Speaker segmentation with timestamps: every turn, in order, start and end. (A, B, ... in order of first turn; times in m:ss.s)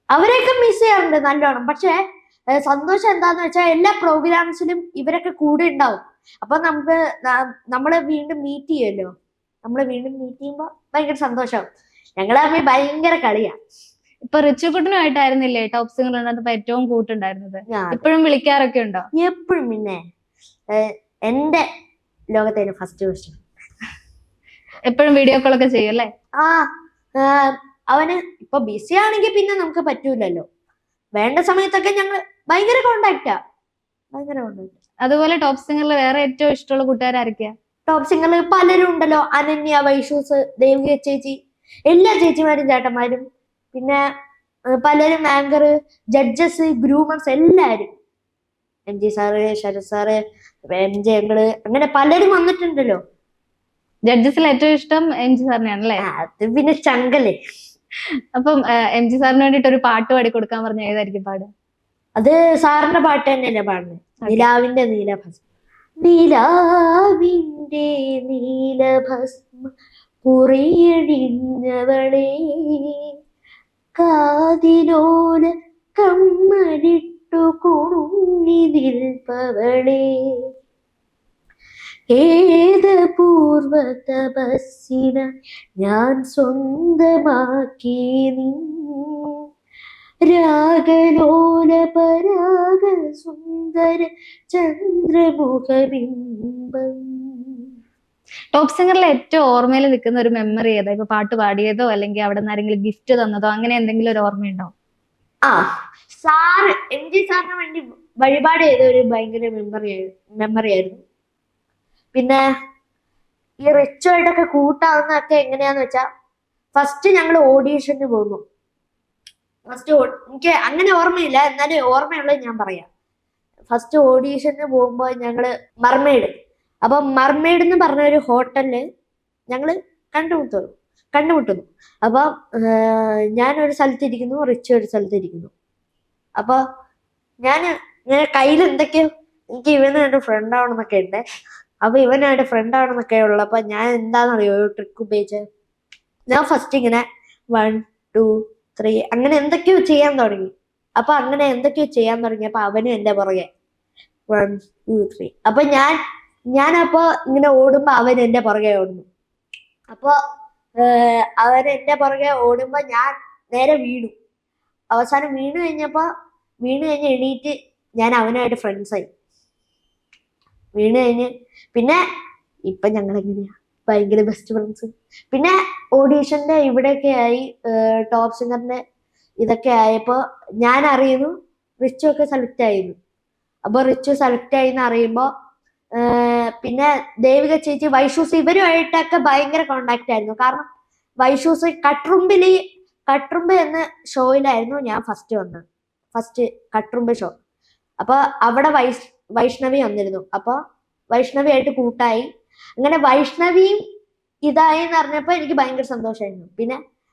0:00.1-0:02.0 A
0:02.6-0:09.1 A
0:09.6-0:11.6 A
0:12.2-0:13.5 A
0:14.2-0:19.0 B
0:17.7-0:18.0 A
0:19.2-0:20.0 A
0:20.7-0:21.6 A
0:22.3-0:23.4 A
0:24.9-0:26.1 B
0:26.4-0:26.7 A
0:27.2-0:30.4 A
0:31.2-0:33.4 A
0:34.1-0:34.7 A
0:35.0-0:37.5 B
0:37.9-0:41.3 A
0:41.9-0:44.0 A
0:44.8-0:47.9 A
0:48.9-0:50.2 A
0:50.7-0:53.0 A
0:54.1-0:56.0 B
0:56.0-0:57.3 A
0:58.4-1:01.5 B
1:02.2-1:05.4 A
1:06.0-1:09.7 A
1:10.2-1:12.9 A
1:14.0-1:20.0 A
1:22.1-1:25.2 A
1:25.8-1:29.1 A
1:30.3-1:37.6 A
1:38.5-1:44.7 B
1:46.2-1:51.0 A
1:52.1-1:52.4 A
1:53.6-1:56.0 A
1:56.7-1:58.4 A
1:59.7-2:02.9 A
2:03.7-2:06.3 A
2:06.8-2:08.8 A
2:09.5-2:15.5 A
2:17.4-2:21.2 A
2:21.8-2:25.4 A
2:26.3-2:27.0 A
2:27.5-2:33.5 A
2:34.3-2:36.0 A
2:36.5-2:39.0 A
2:40.8-2:44.1 A
2:44.9-2:46.0 A
2:46.6-2:49.0 A
2:50.8-2:52.0 A
2:52.7-2:58.8 A
2:59.4-3:02.9 A
3:03.7-3:05.3 A
3:06.0-3:10.6 A
3:11.2-3:17.3 A
3:18.0-3:20.6 A
3:21.1-3:22.2 A
3:22.8-3:23.8 A
3:24.5-3:26.8 A